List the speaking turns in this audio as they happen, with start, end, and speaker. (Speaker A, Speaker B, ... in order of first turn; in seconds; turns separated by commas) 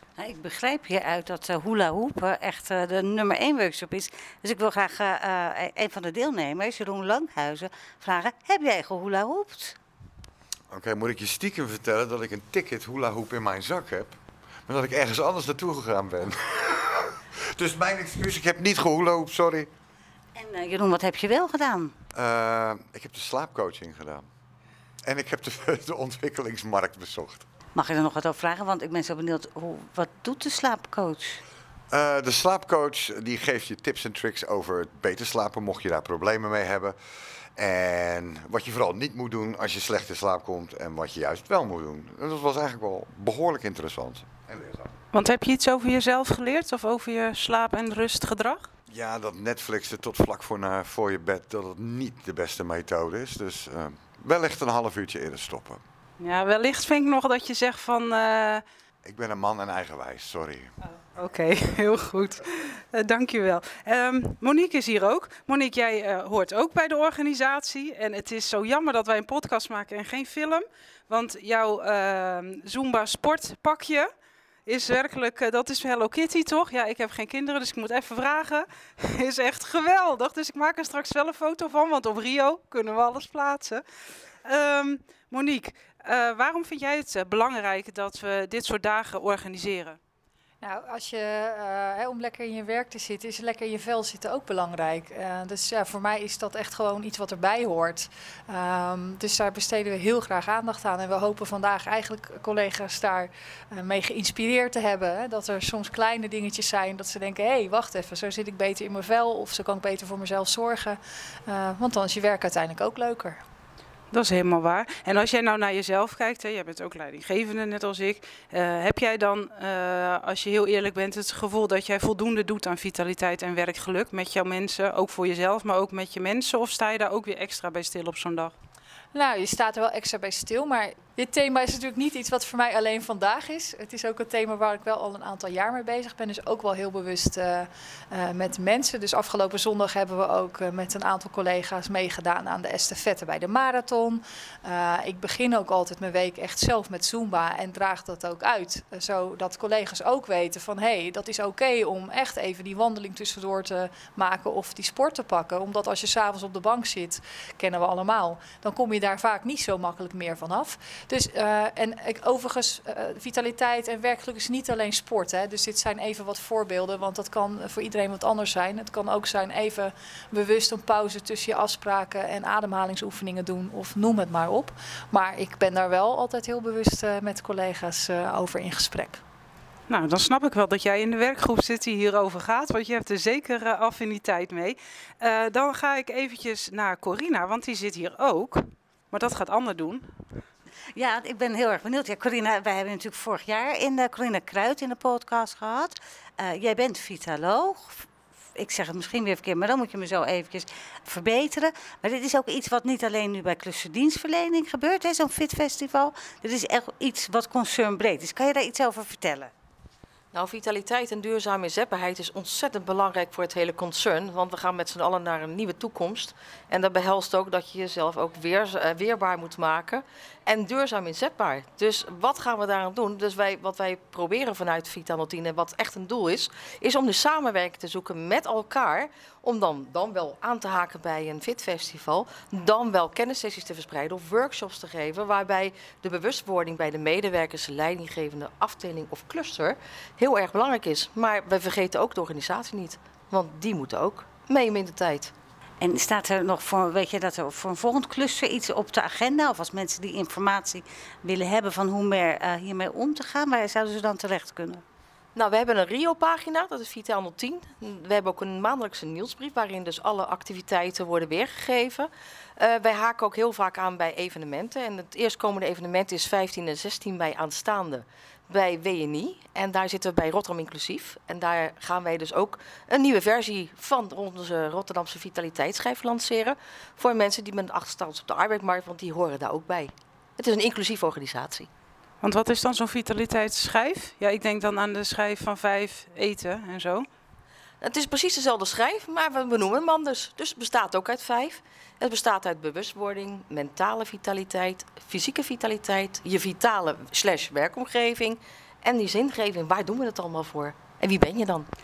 Speaker A: 0.2-9.8, Speaker B: 10.7-19.7, Speaker A: 20.4-21.9, Speaker B: 22.1-24.2, Speaker B: 25.0-27.4, Speaker A: 27.7-31.4, Speaker B: 31.9-37.0, Speaker B: 37.6-44.9, Speaker C: 45.1-48.7, Speaker B: 48.9-55.8, Speaker C: 56.2-58.6, Speaker B: 59.0-60.7, Speaker C: 61.1-74.1, Speaker C: 74.7-83.8, Speaker C: 84.4-90.0, Speaker D: 90.6-113.4, Speaker C: 114.1-128.5, Speaker D: 129.1-179.2, Speaker C: 179.9-190.1, Speaker A: 190.9-198.1, Speaker A: 198.6-209.5, Speaker E: 210.3-245.3, Speaker A: 245.8-254.8, Speaker E: 255.3-281.7, Speaker C: 282.2-287.1, Speaker E: 287.8-301.7